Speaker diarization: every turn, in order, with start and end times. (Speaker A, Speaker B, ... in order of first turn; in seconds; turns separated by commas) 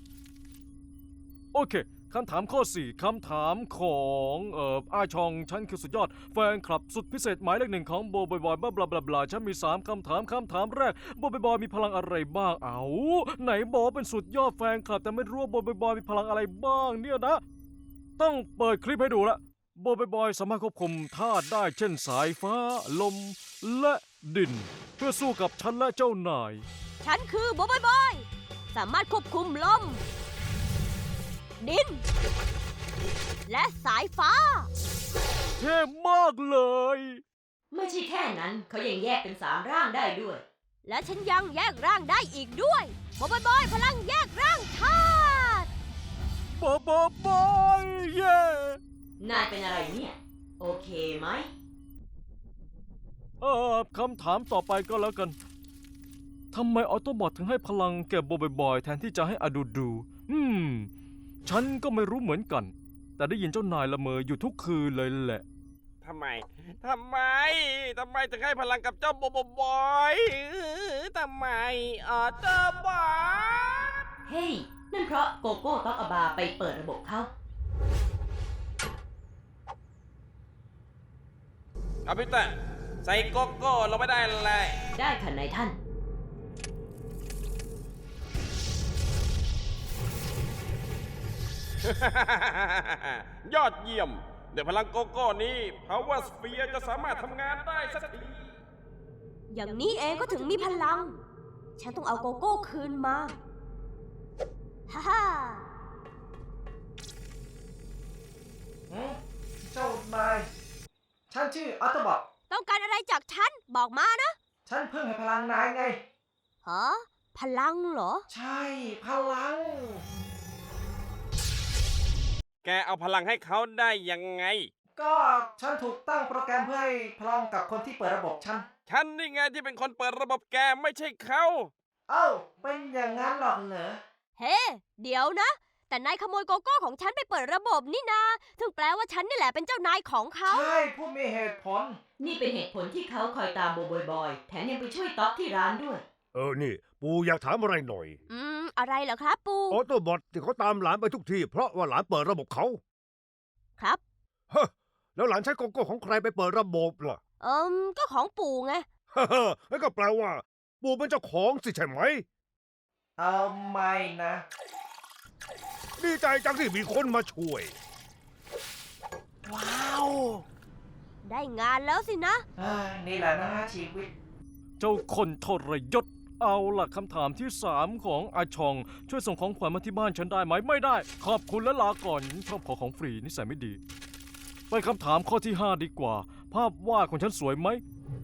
Speaker A: 1.5-17.4, Speaker A: 18.2-26.6, Speaker B: 27.0-30.0, Speaker B: 31.6-32.0, Speaker B: 33.5-34.7, Speaker A: 35.6-37.2, Speaker C: 37.7-40.4, Speaker B: 40.8-45.7, Speaker A: 46.5-48.8, Speaker C: 49.2-51.5, Speaker A: 53.4-55.4, Speaker A: 56.5-60.9, Speaker A: 61.4-65.4, Speaker D: 66.0-73.8, Speaker C: 74.2-77.3, Speaker D: 82.1-82.5, Speaker D: 83.1-84.7, Speaker C: 85.0-85.8, Speaker D: 92.0-98.4, Speaker B: 99.5-101.2, Speaker B: 101.8-103.4, Speaker B: 104.9-105.7, Speaker E: 108.9-110.5, Speaker E: 111.3-112.2, Speaker B: 112.5-114.3, Speaker E: 114.7-116.0, Speaker B: 116.6-118.2, Speaker E: 118.3-120.0, Speaker D: 122.7-124.6, Speaker E: 125.0-128.7, Speaker D: 128.9-131.7, Speaker E: 132.1-134.0, Speaker B: 134.4-140.7, Speaker E: 140.4-142.0, Speaker C: 142.2-146.0, Speaker F: 146.3-148.2, Speaker B: 148.3-149.8, Speaker F: 149.7-152.8, Speaker F: 154.5-157.2, Speaker B: 157.4-158.8, Speaker F: 159.1-162.2, Speaker E: 163.2-164.4, Speaker F: 166.0-167.7, Speaker E: 169.4-170.4, Speaker B: 171.2-172.4, Speaker E: 172.6-174.1, Speaker A: 174.8-183.8, Speaker A: 184.7-187.8